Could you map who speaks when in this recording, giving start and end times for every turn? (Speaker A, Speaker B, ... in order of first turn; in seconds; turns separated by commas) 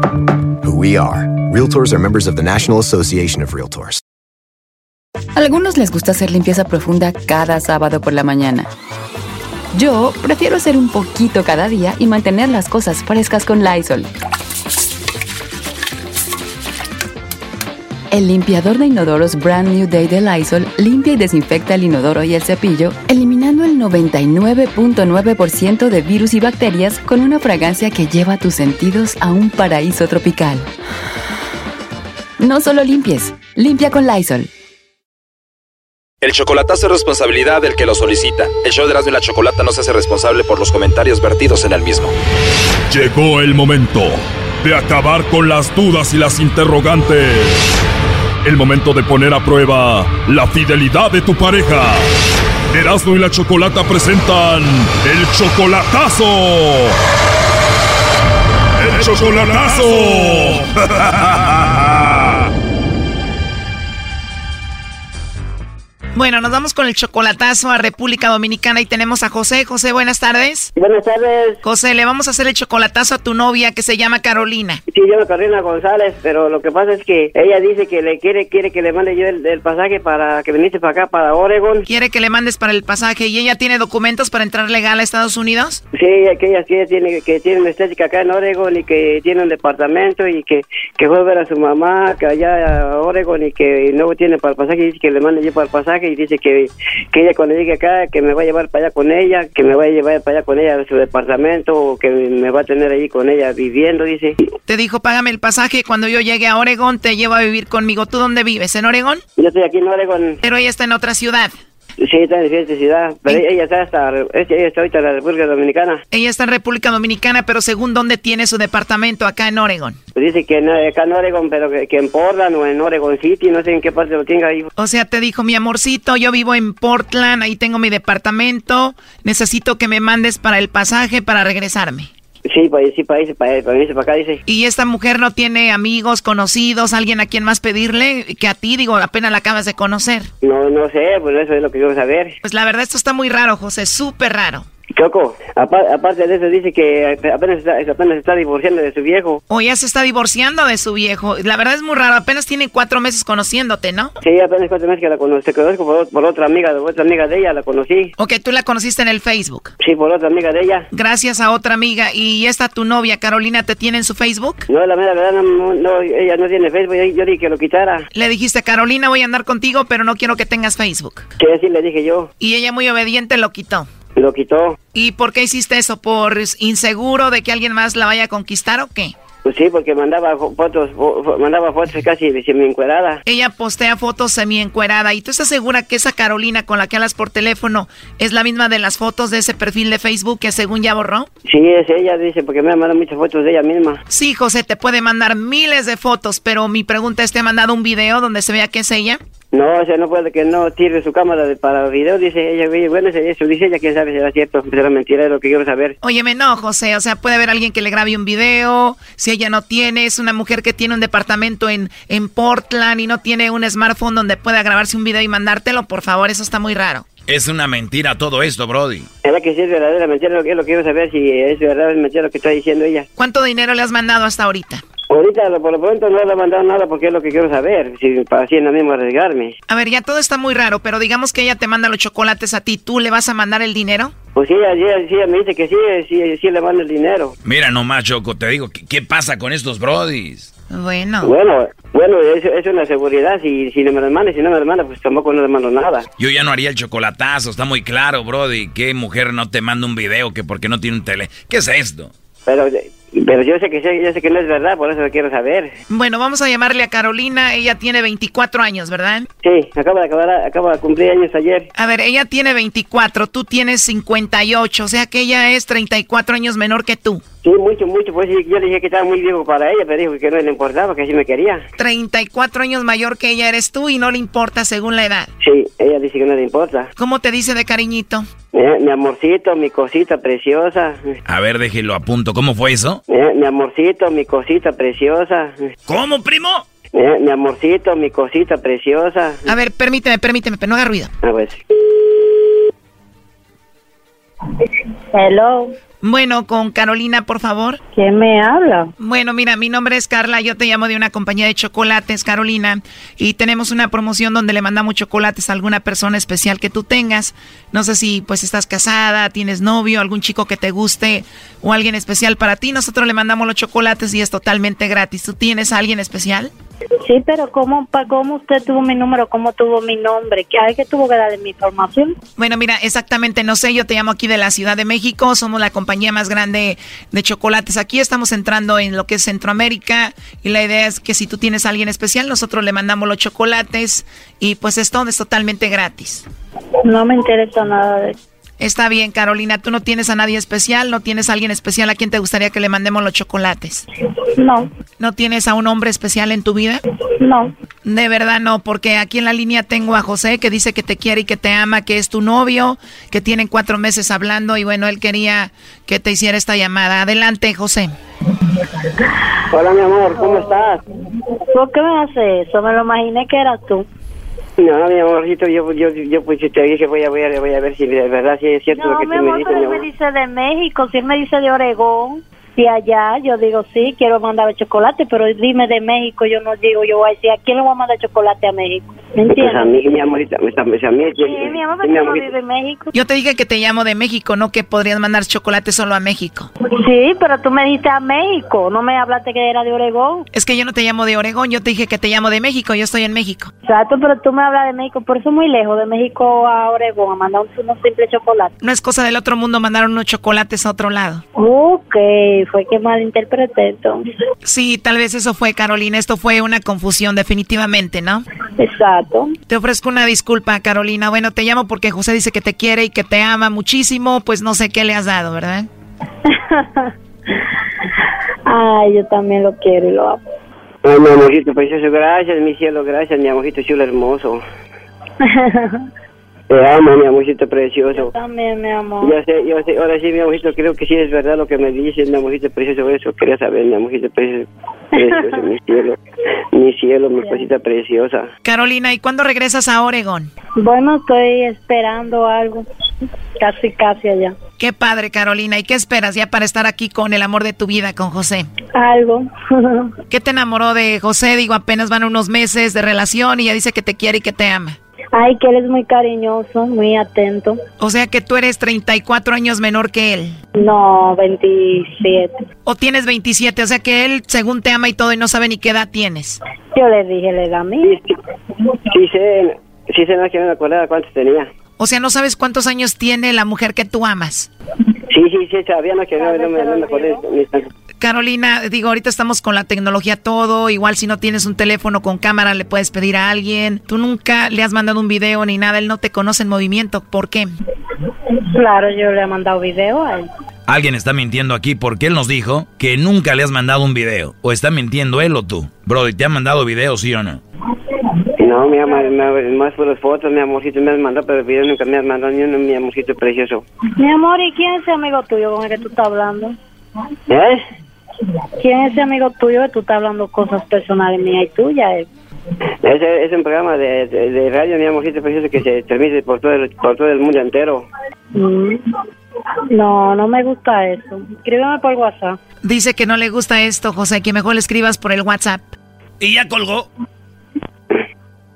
Speaker A: 0.6-4.0, Speaker B: 5.3-8.7, Speaker B: 9.7-14.1, Speaker B: 18.1-30.7, Speaker B: 32.4-34.5, Speaker C: 36.2-42.1, Speaker D: 42.9-47.8, Speaker D: 48.4-52.1, Speaker D: 52.7-57.0, Speaker D: 58.8-62.4, Speaker E: 66.1-70.7, Speaker F: 70.7-71.6, Speaker E: 71.6-74.8, Speaker F: 74.9-81.9, Speaker E: 81.9-85.8, Speaker F: 85.9-104.4, Speaker E: 104.7-109.2, Speaker F: 109.4-110.4, Speaker E: 110.4-111.5, Speaker F: 112.0-116.0, Speaker E: 116.1-120.0, Speaker F: 120.1-124.7, Speaker E: 124.8-132.1, Speaker F: 132.4-134.4, Speaker E: 134.4-140.3, Speaker F: 140.4-142.4, Speaker E: 142.4-144.7, Speaker F: 144.9-149.4, Speaker E: 149.5-154.1, Speaker F: 154.2-158.1, Speaker E: 158.2-159.7, Speaker F: 159.8-160.9, Speaker E: 160.9-164.6, Speaker F: 164.7-168.1, Speaker E: 168.1-171.3, Speaker F: 171.4-172.3, Speaker E: 172.4-173.9, Speaker F: 174.2-174.8, Speaker E: 174.9-179.2, Speaker F: 179.4-183.2, Speaker E: 183.2-191.3, Speaker F: 191.4-194.0, Speaker E: 194.1-199.2, Speaker F: 199.5-205.9, Speaker E: 206.0-217.0, Speaker G: 217.3-219.1, Speaker F: 219.2-223.1, Speaker E: 223.2-224.8, Speaker F: 225.1-229.6, Speaker E: 229.7-234.1, Speaker F: 234.3-237.3, Speaker G: 237.4-240.5, Speaker E: 240.7-241.3, Speaker F: 241.2-246.1, Speaker G: 246.2-252.1, Speaker F: 252.4-255.7, Speaker E: 255.9-259.3, Speaker F: 259.4-261.7, Speaker E: 261.8-267.2, Speaker F: 267.4-271.6, Speaker E: 271.8-275.3, Speaker F: 275.4-276.9, Speaker E: 277.0-278.2, Speaker F: 278.5-281.1, Speaker G: 281.2-283.0, Speaker F: 283.1-285.7, Speaker G: 285.9-286.6, Speaker F: 286.9-289.5, Speaker E: 289.5-291.1, Speaker F: 291.2-291.6, Speaker H: 295.1-295.8, Speaker E: 296.0-297.8, Speaker H: 297.9-298.9, Speaker E: 299.0-316.5, Speaker H: 317.0-322.2, Speaker E: 322.4-336.3, Speaker H: 336.8-338.1, Speaker E: 338.6-343.8, Speaker H: 344.4-344.7, Speaker E: 345.0-346.8, Speaker H: 347.2-347.5, Speaker E: 347.8-357.9, Speaker F: 359.5-360.8, Speaker H: 360.2-360.6, Speaker H: 361.5-363.9, Speaker F: 364.6-369.8, Speaker H: 368.7-379.8, Speaker F: 379.3-382.3, Speaker H: 381.1-382.9, Speaker E: 382.9-386.5, Speaker H: 386.7-390.3, Speaker E: 390.3-393.5, Speaker H: 393.6-398.5, Speaker E: 398.6-401.2, Speaker H: 401.4-404.0, Speaker E: 404.4-408.2, Speaker H: 408.6-409.4, Speaker E: 409.5-415.7, Speaker H: 416.2-416.9, Speaker H: 418.4-420.2, Speaker F: 420.8-424.4, Speaker H: 425.2-425.9, Speaker F: 426.5-428.1, Speaker H: 427.9-429.2, Speaker F: 429.0-436.0, Speaker H: 434.9-435.3, Speaker F: 436.5-438.3, Speaker E: 438.4-440.3, Speaker H: 440.6-442.7, Speaker H: 443.4-444.4, Speaker E: 444.6-448.5, Speaker H: 448.7-449.9, Speaker E: 450.1-454.8, Speaker H: 455.1-457.6, Speaker E: 457.8-460.4, Speaker H: 460.5-462.3, Speaker E: 462.6-466.4, Speaker H: 466.7-468.0, Speaker F: 467.8-468.1, Speaker F: 468.9-471.5, Speaker E: 471.8-474.5, Speaker F: 475.1-477.7, Speaker H: 476.2-477.2, Speaker E: 478.0-487.5, Speaker H: 488.5-490.3, Speaker G: 490.7-497.4, Speaker F: 498.4-503.6, Speaker H: 504.0-506.6, Speaker F: 507.3-507.6, Speaker H: 508.6-512.1, Speaker F: 512.8-517.9, Speaker H: 518.3-518.8, Speaker H: 519.7-522.4, Speaker E: 522.6-525.6, Speaker G: 526.2-526.9